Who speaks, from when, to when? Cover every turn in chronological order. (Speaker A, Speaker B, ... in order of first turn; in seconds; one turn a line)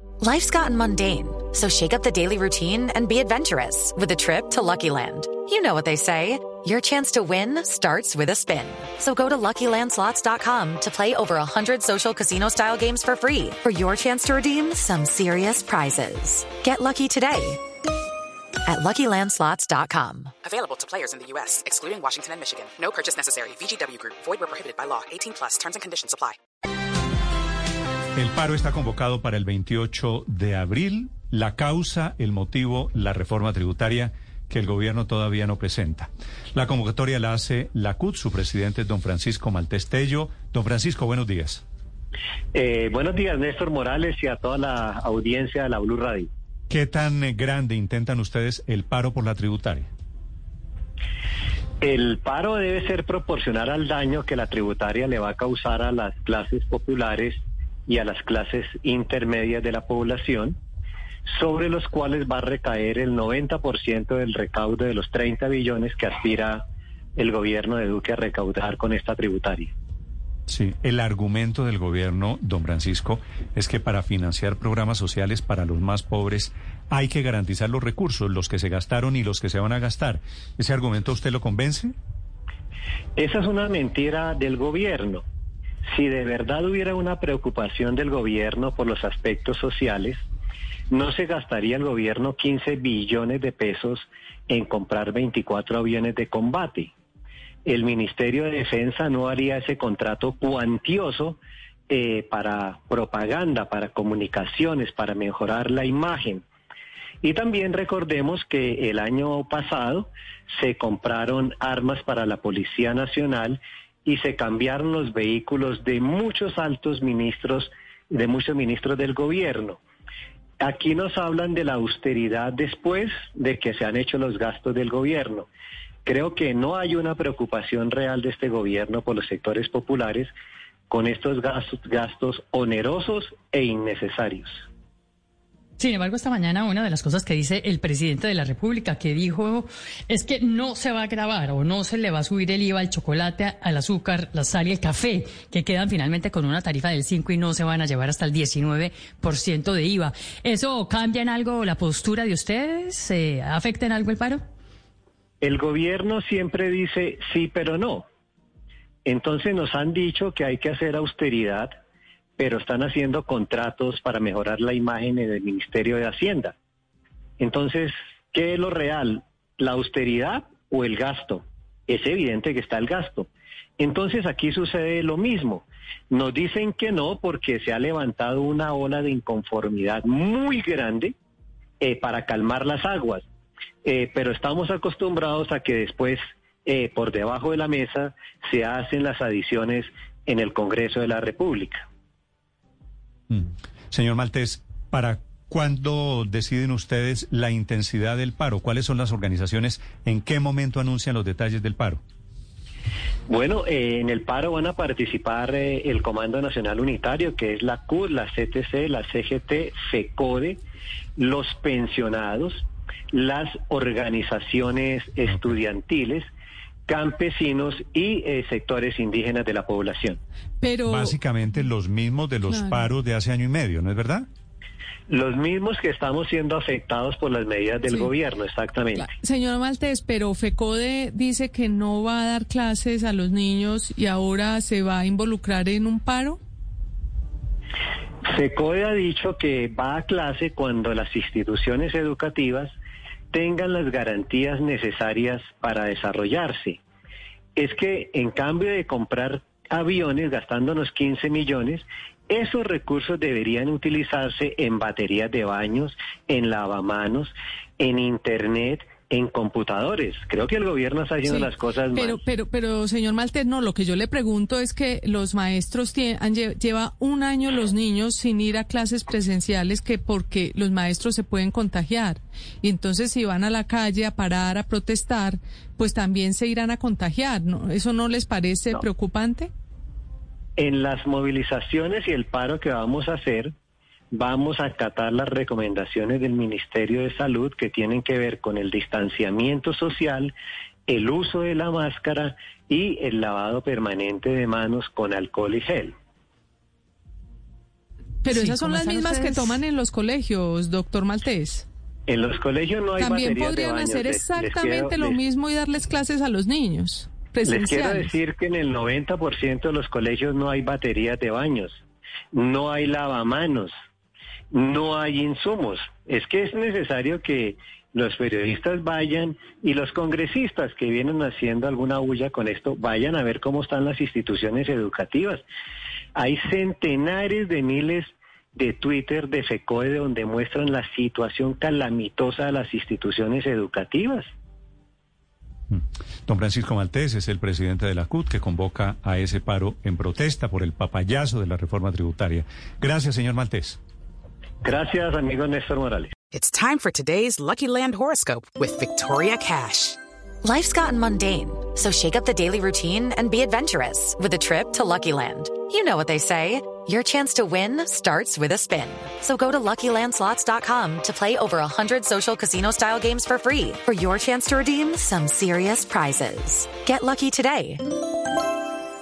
Speaker A: 0.2-17.6
Speaker A: 18.6-20.3
Speaker B: 20.4-26.4
Speaker C: 28.1-41.6
Speaker D: 42.5-46.3
Speaker C: 46.7-49.9
Speaker D: 51.8-60.6
Speaker D: 61.3-66.6
Speaker D: 67.2-69.7
Speaker C: 70.5-81.9
Speaker D: 83.2-85.2
Speaker D: 85.9-90.2
Speaker D: 90.9-96.9
Speaker D: 97.7-101.4
Speaker D: 101.9-106.4
Speaker D: 107.2-119.8
Speaker D: 120.6-125.5
Speaker D: 126.0-130.3
Speaker D: 130.9-134.7
Speaker E: 135.8-154.4
Speaker D: 155.4-158.1
Speaker D: 159.1-161.7
Speaker D: 162.4-166.6
Speaker D: 167.4-173.3
Speaker D: 173.8-181.2
Speaker D: 181.8-183.2
Speaker D: 183.8-191.8
Speaker C: 193.3-202.0
Speaker D: 203.3-210.6
Speaker D: 211.2-216.3
Speaker D: 216.9-220.2
Speaker F: 220.6-221.2
Speaker C: 220.9-224.3
Speaker F: 222.5-222.8
Speaker D: 225.1-229.1
Speaker F: 229.0-236.4
Speaker D: 238.3-242.7
Speaker D: 243.3-246.8
Speaker D: 247.6-262.2
Speaker F: 261.2-279.5
Speaker D: 280.6-283.5
Speaker D: 284.1-290.3
Speaker D: 290.9-295.9
Speaker F: 298.2-301.7
Speaker E: 298.4-299.4
Speaker D: 302.1-305.2
Speaker F: 303.0-308.1
Speaker D: 307.5-311.8
Speaker D: 312.3-313.7
Speaker D: 314.5-325.4
Speaker D: 326.1-334.3
Speaker C: 335.7-343.8
Speaker D: 344.6-346.1
Speaker B: 346.3-350.0
Speaker A: 350.4-367.9